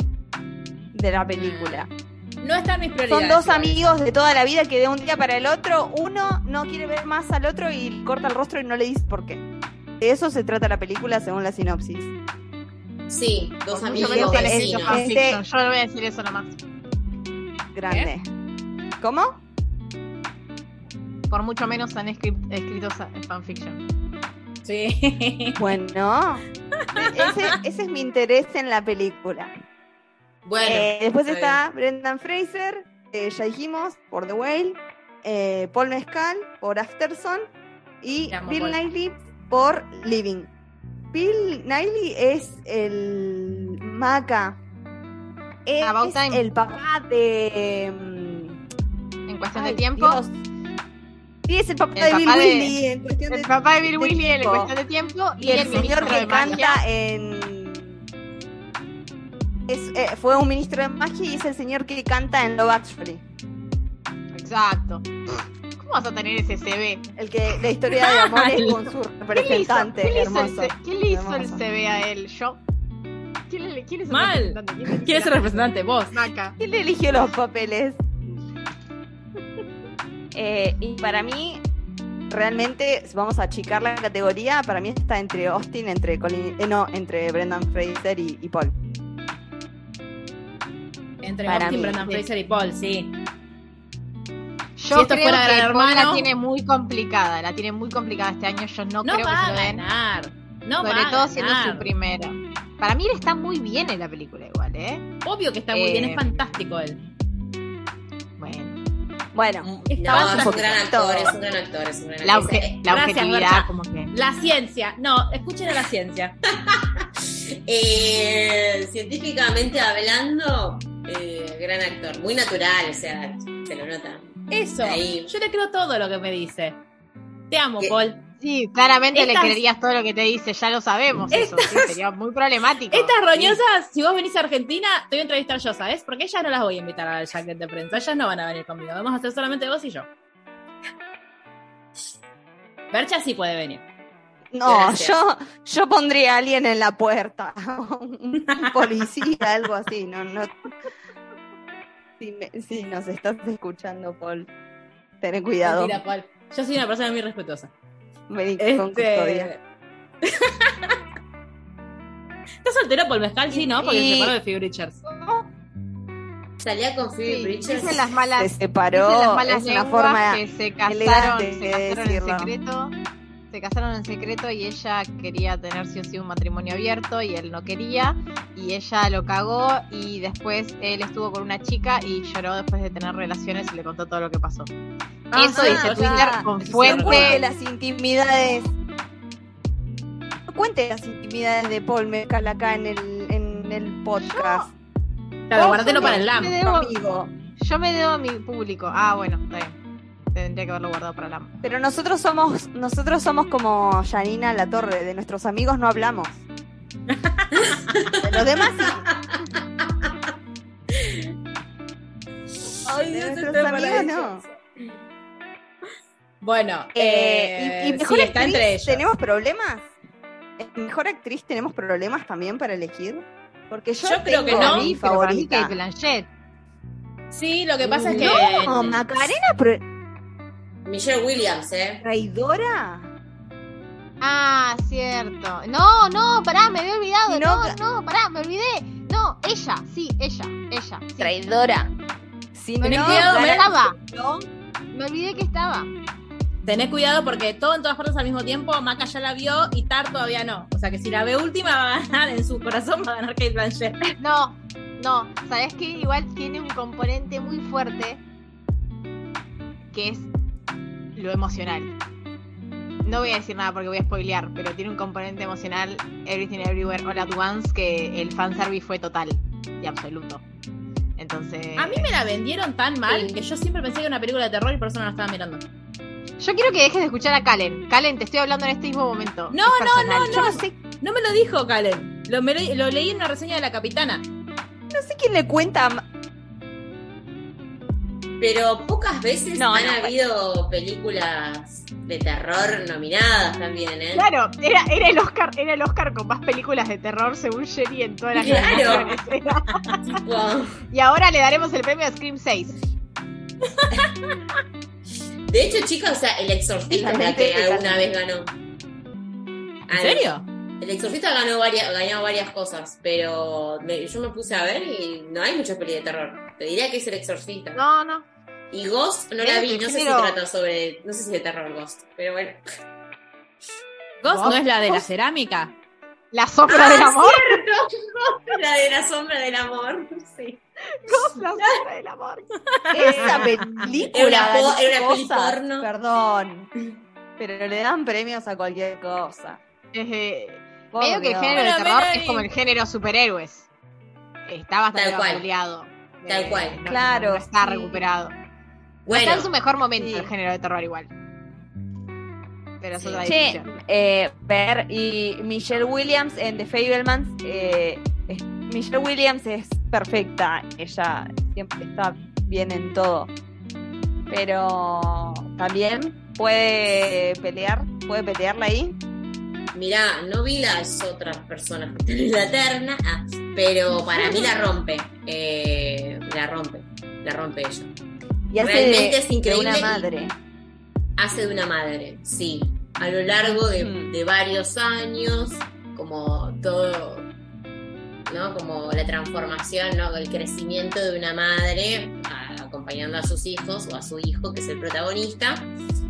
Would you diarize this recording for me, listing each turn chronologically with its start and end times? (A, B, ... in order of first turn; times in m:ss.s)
0:00.9-0:01.9 A
0:01.5-0:01.9 B
0:02.4-0:04.0 B
0:03.1-0:09.4 A
0:10.0-0:12.1 A
0:13.1-0:15.0 C
0:13.7-0:15.4 A
0:13.9-0:16.6 D
0:17.7-0:18.3 A
0:17.9-0:18.1 B
0:19.0-0:19.4 A
0:21.3-0:23.8 D
0:24.6-0:25.7 B
0:25.6-0:26.4 A
0:26.8-0:27.6 B
0:27.0-0:29.5 A
0:30.4-0:31.6 C
0:30.6-0:37.5 A
0:38.0-0:40.5 A
0:38.3-0:38.8 B
0:41.1-0:44.6 A
0:45.7-0:48.6 A
0:45.8-0:46.4 D
0:49.3-0:50.2 D
0:49.5-0:50.4 A
0:51.5-0:54.7 A
0:52.0-0:52.7 D
0:53.3-0:56.8 D
0:55.4-0:58.0 A
0:55.6-0:56.6 B
0:59.7-1:03.2 A
1:04.3-1:07.2 D
1:07.2-1:11.6 A
1:08.2-1:08.8 B
1:09.3-1:12.6 D
1:13.5-1:16.6 D
1:14.1-1:16.2 B
1:16.6-1:18.0 A
1:20.3-1:21.6 A
1:22.3-1:28.7 A
1:31.2-1:33.1 B
1:31.5-1:32.0 A
1:34.8-1:39.8 D
1:34.9-1:36.3 B
1:39.0-1:41.9 B
1:40.8-1:45.0 D
1:45.2-1:47.0 B
1:45.7-1:46.6 D
1:48.4-1:48.8 D
1:49.4-1:51.3 A
1:49.6-1:52.8 C
1:49.9-1:50.6 B
1:52.2-1:54.1 D
1:52.9-1:56.4 B
1:56.7-1:57.0 C
1:57.7-2:05.3 C
2:04.5-2:06.8 B
2:07.5-2:08.2 B
2:08.4-2:13.2 D
2:09.1-2:09.6 B
2:11.3-2:12.0 B
2:12.9-2:20.1 B
2:22.9-2:23.8 B
2:24.5-2:30.5 A
2:24.6-2:25.2 C
2:28.5-2:28.8 B
2:32.2-2:34.5 A
2:35.2-2:36.0 A
2:35.6-2:37.7 B
2:38.3-2:39.5 A
2:38.6-2:39.6 B
2:40.2-2:41.0 B
2:42.6-2:45.0 B
2:43.5-2:44.4 A
2:45.0-2:45.5 A
2:46.6-2:48.1 C
2:47.2-2:53.0 D
2:48.4-2:52.5 A
2:53.5-3:04.7 D
3:05.3-3:07.4 B
3:05.4-3:08.7 A
3:05.4-3:07.4 D
3:10.5-3:14.7 A
3:14.2-3:14.7 D
3:15.5-3:16.6 B
3:15.5-3:17.3 A
3:15.6-3:16.9 D
3:17.6-3:19.8 D
3:20.3-3:21.6 D
3:21.6-3:26.4 A
3:27.1-3:27.9 B
3:28.0-3:28.3 C
3:28.2-3:29.1 A
3:29.1-3:29.4 C
3:32.8-3:34.4 A
3:32.9-3:34.5 B
3:36.4-3:39.1 B
3:37.0-3:39.9 A
3:40.6-3:45.8 A
3:44.0-3:44.9 B
3:44.5-3:46.3 D
3:47.3-3:49.0 B
3:47.8-3:49.0 C
3:48.0-3:49.8 A
3:50.8-3:52.0 C
3:52.0-3:53.1 A
3:54.2-4:01.4 D
3:57.3-3:57.8 A
4:01.2-4:01.9 A
4:02.6-4:04.5 A
4:02.8-4:03.7 B
4:02.8-4:04.0 D
4:04.9-4:05.9 D
4:06.6-4:14.1 B
4:14.2-4:18.2 D
4:19.9-4:20.3 D
4:21.2-4:21.9 D
4:23.0-4:30.4 D
4:31.2-4:32.1 D
4:31.8-4:35.6 B
4:33.1-4:33.4 C
4:36.4-4:40.6 D
4:39.5-4:44.2 B
4:40.3-4:40.8 A
4:44.9-4:46.0 A
4:48.4-4:54.3 C
4:49.6-4:50.2 A
4:54.2-5:00.2 D
4:58.4-4:59.2 C
5:00.0-5:00.8 C
5:00.9-5:02.8 D
5:03.8-5:04.3 B
5:05.5-5:08.5 C
5:06.9-5:08.0 A
5:09.9-5:17.8 C
5:09.9-5:10.4 B
5:17.8-5:18.3 D
5:18.7-5:22.6 C
5:19.4-5:20.4 D
5:24.2-5:25.7 B
5:24.3-5:24.6 D
5:24.5-5:25.0 A
5:26.3-5:27.6 D
5:26.7-5:31.7 C
5:31.0-5:32.5 D
5:32.8-5:33.8 B
5:32.9-5:36.7 A
5:34.1-5:35.9 C
5:37.4-5:39.6 A
5:39.9-5:43.7 D
5:40.9-5:41.6 A
5:41.5-5:42.5 B
5:44.5-5:48.3 D
5:44.9-5:45.4 C
5:46.3-5:46.8 C
5:46.9-5:48.0 A
5:49.1-5:49.5 C
5:49.1-5:51.1 D
5:50.0-5:50.3 A
5:52.8-5:53.6 D
5:52.9-5:53.3 C
5:53.2-6:03.3 A
6:04.3-6:09.0 A
6:09.7-6:17.9 C
6:13.9-6:14.6 A
6:18.5-6:20.3 A
6:18.6-6:20.1 C
6:21.2-6:27.3 C
6:23.5-6:24.1 A
6:28.3-6:35.7 C